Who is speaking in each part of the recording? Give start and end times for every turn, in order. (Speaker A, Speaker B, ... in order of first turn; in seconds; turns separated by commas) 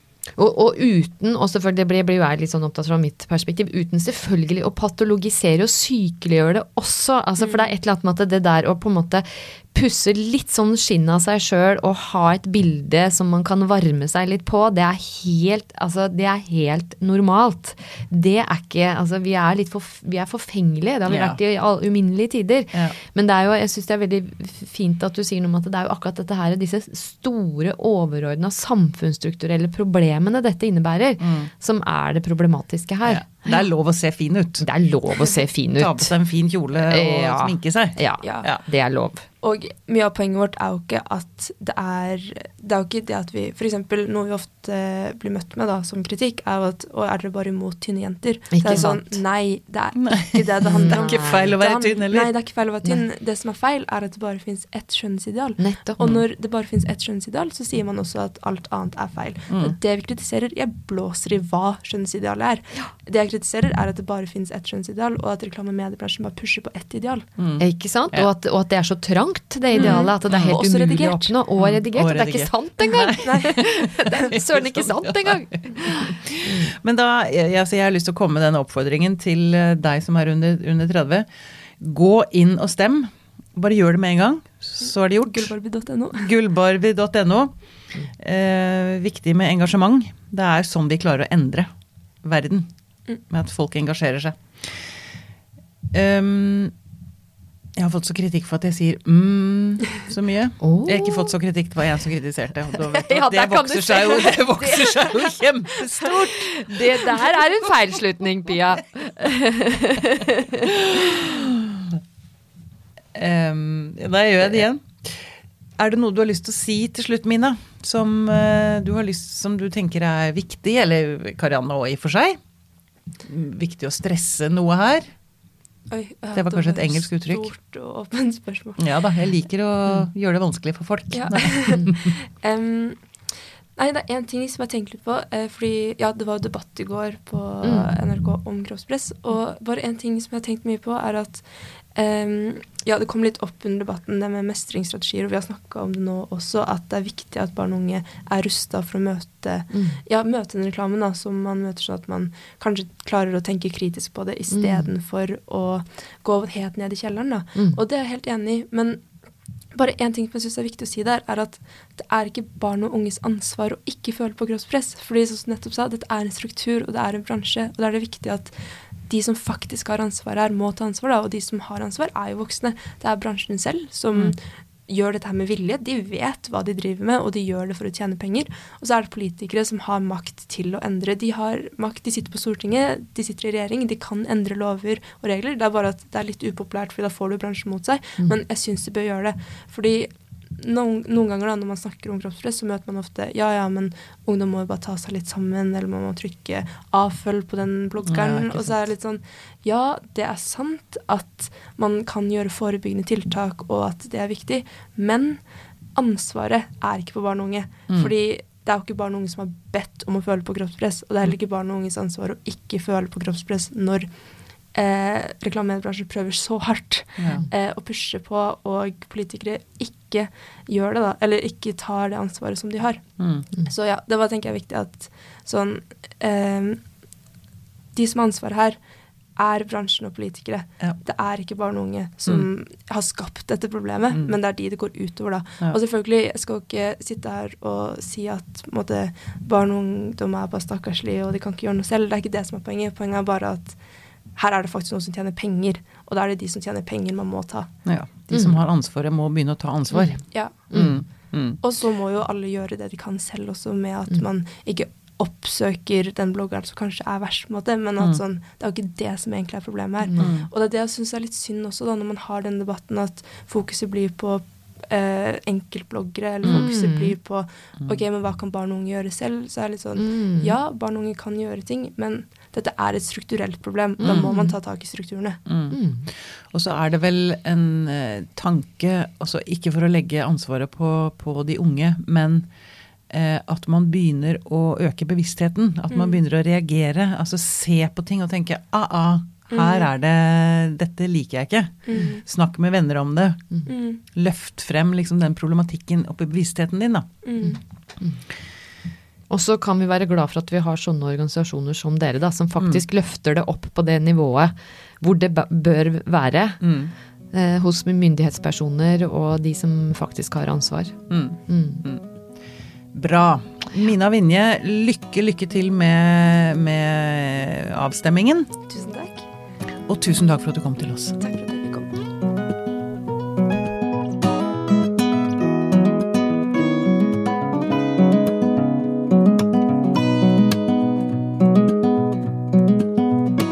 Speaker A: 0.3-33.5, Speaker B: 7.4-7.7, Speaker C: 21.1-21.4, Speaker C: 31.2-31.5, Speaker C: 33.0-34.6, Speaker A: 34.6-36.1, Speaker C: 35.8-38.6, Speaker A: 36.8-39.2, Speaker B: 38.2-38.5, Speaker B: 39.4-67.2, Speaker A: 48.5-49.2, Speaker C: 50.0-52.3, Speaker A: 50.6-51.5, Speaker A: 55.6-56.1, Speaker C: 59.5-59.8, Speaker C: 67.4-68.3, Speaker A: 67.6-76.7, Speaker B: 69.7-71.3, Speaker C: 69.7-70.6, Speaker C: 71.6-81.3, Speaker B: 73.2-73.6, Speaker C: 81.8-85.5, Speaker B: 85.2-86.3, Speaker C: 86.1-87.5, Speaker C: 88.1-91.7, Speaker C: 92.2-92.7, Speaker C: 93.2-94.9, Speaker C: 95.9-96.7, Speaker C: 97.8-107.7, Speaker A: 100.6-101.3, Speaker A: 102.8-111.2, Speaker C: 110.6-112.0, Speaker C: 113.1-122.4, Speaker C: 123.2-125.1, Speaker B: 125.9-128.9, Speaker C: 126.3-127.5, Speaker C: 128.8-132.1, Speaker B: 131.1-133.0, Speaker B: 133.8-159.1, Speaker A: 137.6-137.9, Speaker A: 149.7-150.0, Speaker A: 154.5-154.9, Speaker B: 159.7-168.5, Speaker B: 169.1-205.4, Speaker C: 198.0-198.8, Speaker B: 205.9-214.1, Speaker B: 214.7-226.8, Speaker C: 217.2-217.4, Speaker C: 223.2-223.4, Speaker B: 227.9-228.8, Speaker B: 229.3-243.8, Speaker B: 244.3-247.7, Speaker C: 247.8-251.6, Speaker B: 250.3-250.7, Speaker A: 250.7-251.0, Speaker B: 251.6-275.4, Speaker A: 260.0-260.3, Speaker C: 260.2-260.5, Speaker A: 266.4-267.1, Speaker A: 270.0-270.5, Speaker A: 274.0-274.5, Speaker C: 275.5-282.5, Speaker A: 275.7-276.1, Speaker C: 283.1-297.1, Speaker B: 285.9-286.2, Speaker B: 289.5-289.9, Speaker B: 291.9-292.2, Speaker B: 293.7-294.0, Speaker B: 297.2-297.6, Speaker A: 297.4-298.2, Speaker A: 299.3-306.6, Speaker C: 306.6-306.9, Speaker A: 307.3-311.8, Speaker C: 311.1-312.0, Speaker C: 312.9-318.5, Speaker B: 318.7-319.2, Speaker C: 319.9-321.2, Speaker B: 321.2-322.0